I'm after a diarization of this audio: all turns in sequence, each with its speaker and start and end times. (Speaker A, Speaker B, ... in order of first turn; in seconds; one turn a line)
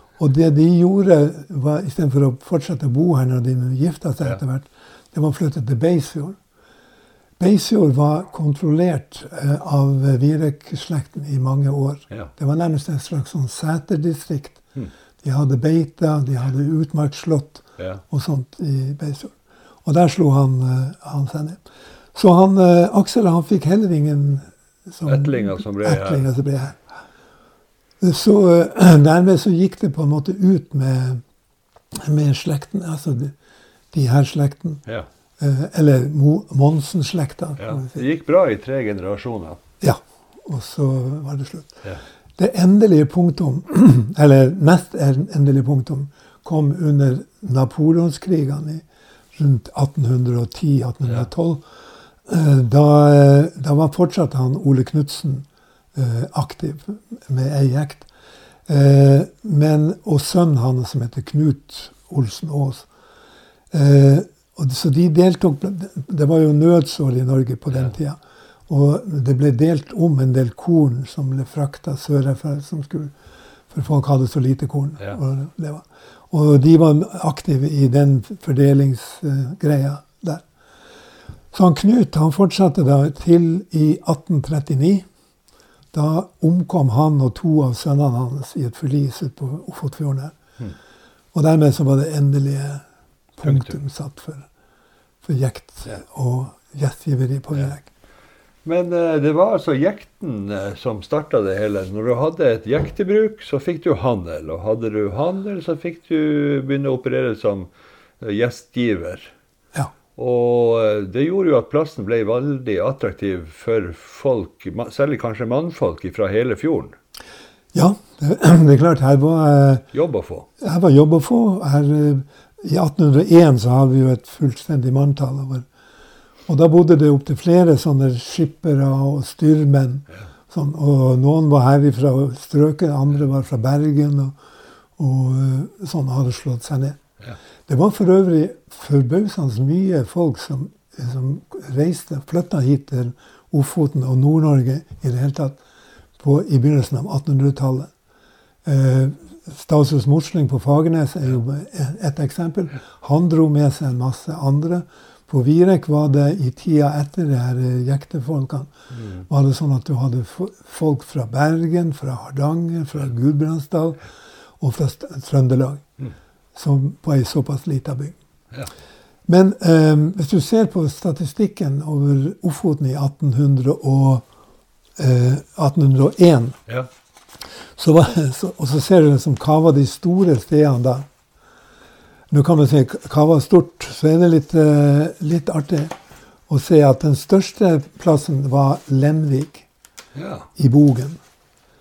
Speaker A: 0.2-6.4
Speaker A: 7.4-14.6
Speaker A: 15.2-21.6
Speaker A: 22.1-26.8
Speaker B: 25.1-26.3
Speaker A: 28.0-31.2
Speaker A: 31.9-33.4
Speaker A: 33.9-34.9
Speaker A: 35.4-38.0
Speaker B: 37.6-39.6
Speaker A: 39.8-41.8
Speaker A: 42.4-51.6
Speaker A: 52.3-58.1
Speaker A: 58.7-62.9
Speaker A: 63.7-73.1
Speaker A: 73.7-80.4
Speaker A: 81.5-85.0
Speaker A: 85.9-90.4
Speaker A: 91.3-92.8
Speaker A: 93.4-94.5
Speaker B: 93.4-93.8
Speaker A: 95.2-97.9
Speaker B: 98.7-107.7
Speaker B: 108.2-109.3
Speaker B: 110.2-117.0
Speaker A: 117.7-119.9
Speaker B: 119.9-120.5
Speaker A: 120.6-125.7
Speaker A: 126.5-134.4
Speaker A: 135.0-137.0
Speaker A: 137.7-145.6
Speaker A: 146.2-147.9
Speaker A: 148.6-158.7
Speaker A: 159.3-164.0
Speaker A: 164.6-165.8
Speaker A: 166.6-168.2
Speaker A: 169.3-174.3
Speaker A: 175.0-176.6
Speaker A: 177.8-181.1
Speaker A: 182.3-185.9
Speaker A: 186.5-189.7
Speaker B: 190.2-190.5
Speaker A: 190.6-191.2